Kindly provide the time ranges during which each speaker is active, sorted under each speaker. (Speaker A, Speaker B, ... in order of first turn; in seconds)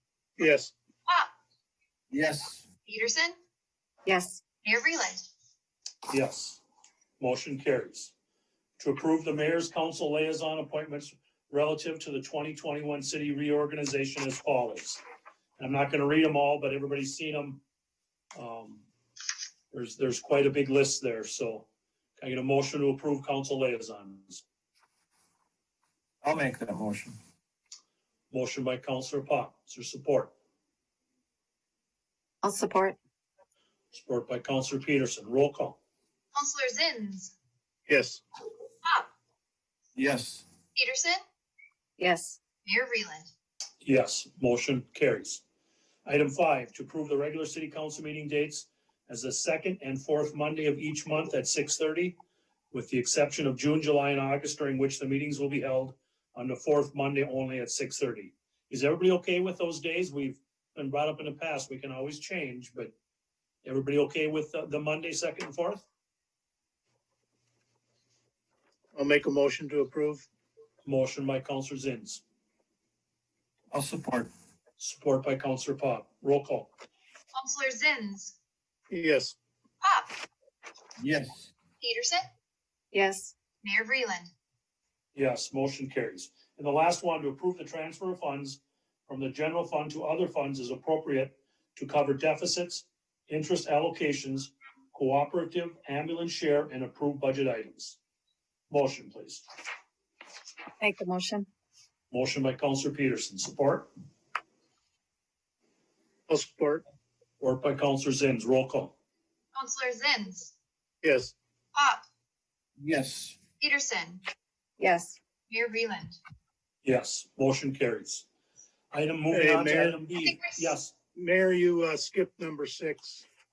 Speaker A: 0.4-0.7, 37.9-38.2, 68.9-70.2, 78.9-79.4, 106.3-106.8, 111.0-111.3, 119.3-120.1, 121.1-123.2
Speaker B: 2.1-2.6, 26.2-27.2, 40.0-40.4, 73.7-74.3, 81.0-81.4, 112.8-113.4
Speaker C: 2.9-3.3, 4.6-5.2, 36.3-37.3, 40.7-41.2, 42.6-43.3, 77.3-78.3, 79.8-80.1, 81.8-82.2, 83.6-84.3, 109.5-110.5, 111.8-112.0, 113.6-114.2, 115.5-116.2, 120.2-120.7
Speaker D: 4.0-4.4, 32.4-33.0, 42.0-42.4, 82.9-83.3, 100.8-101.5, 114.8-115.2
Speaker E: 6.1-6.6, 7.2-8.1, 8.8-15.0, 15.6-17.6, 18.3-18.8, 19.7-21.6, 22.2-24.4, 28.3-30.3, 33.9-35.8, 43.8-45.4, 46.0-52.2, 52.7-62.9, 63.6-65.8, 70.8-72.2, 74.8-76.7, 85.1-98.0, 98.7-99.4, 102.1-103.9, 107.4-108.9, 116.8-118.2, 118.9-120.9